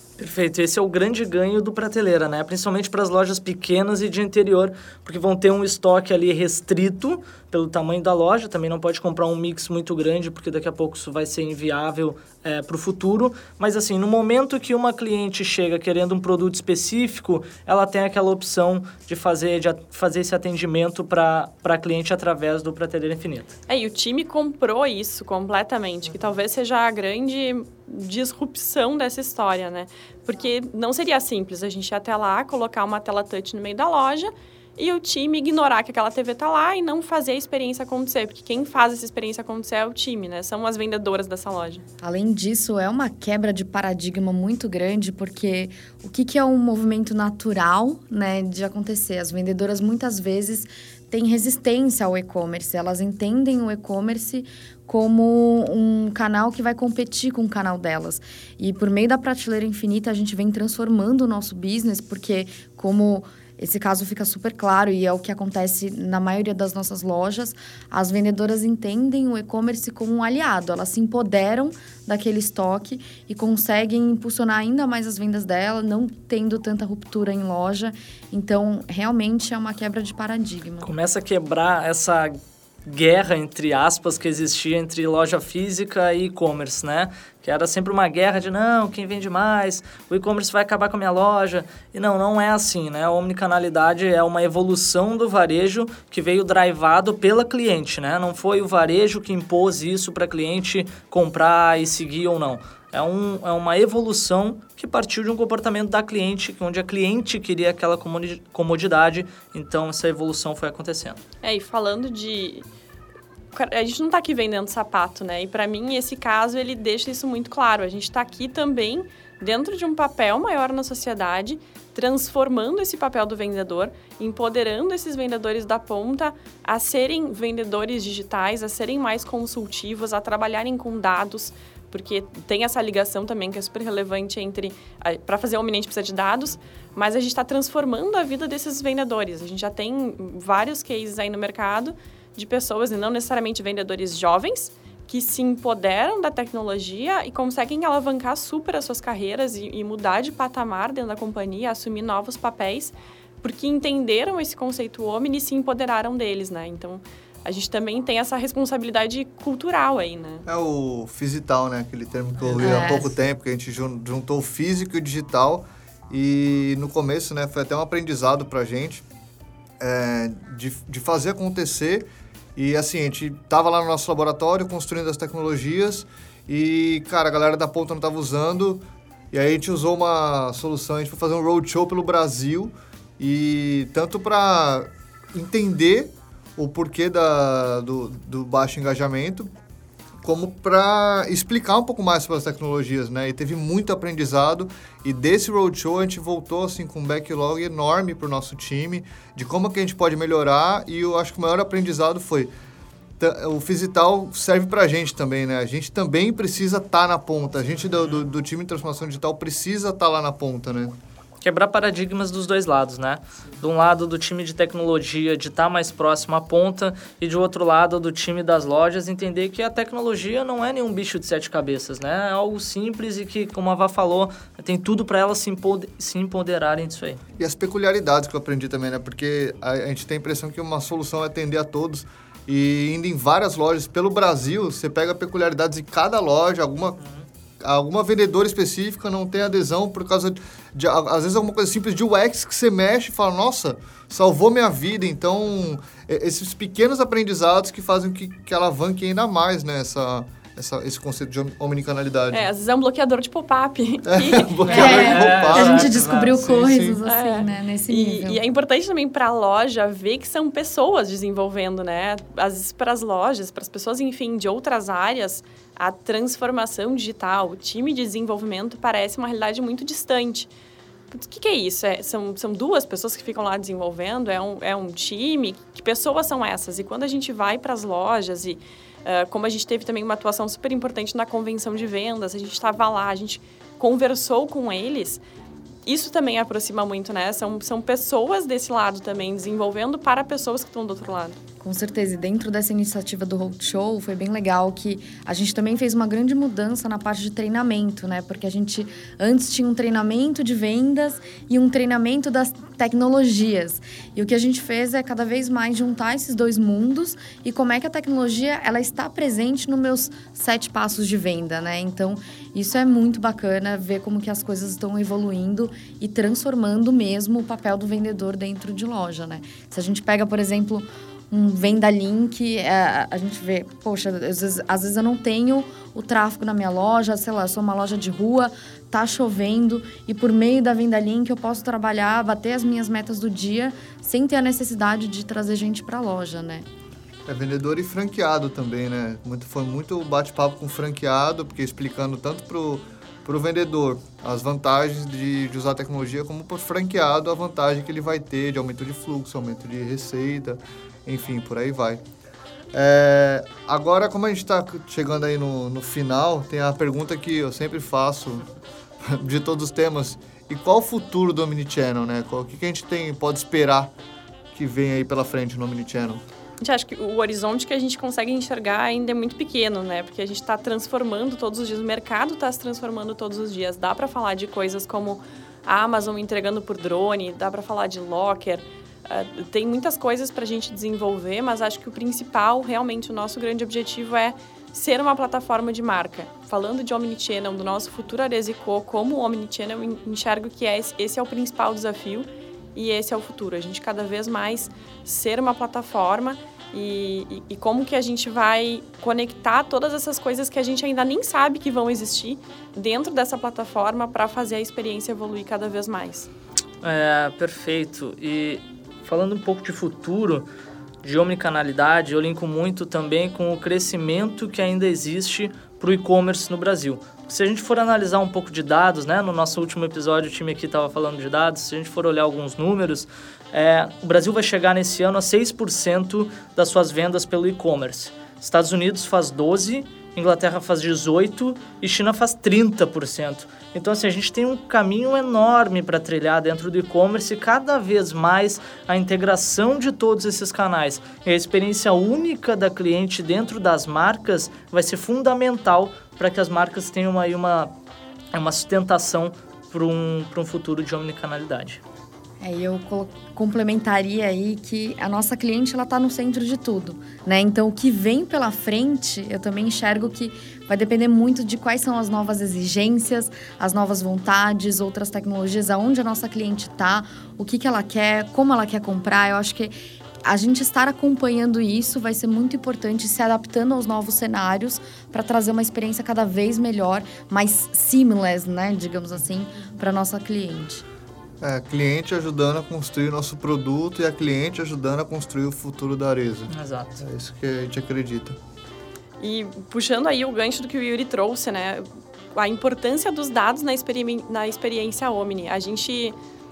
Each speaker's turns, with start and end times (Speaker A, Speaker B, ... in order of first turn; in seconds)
Speaker A: 0.2-23.6, 80.8-111.2, 211.4-227.2, 254.9-256.2, 406.8-410.4, 411.0-447.7, 448.3-451.8, 486.5-487.0
Speaker B: 23.7-41.8, 111.4-112.6, 113.5-160.4, 252.3-255.2, 257.0-270.5, 271.1-285.2, 285.9-291.4, 366.6-406.3, 489.2-496.1
Speaker C: 42.0-80.9, 162.6-163.1, 254.7-258.4, 291.6-336.7, 452.4-480.8
Speaker D: 160.4-169.0, 169.8-189.5, 190.2-202.5, 203.2-210.9, 227.4-237.0, 237.6-252.5, 254.1-257.0, 337.2-352.0, 352.7-358.4, 359.0-363.9, 364.5-366.2, 481.4-488.4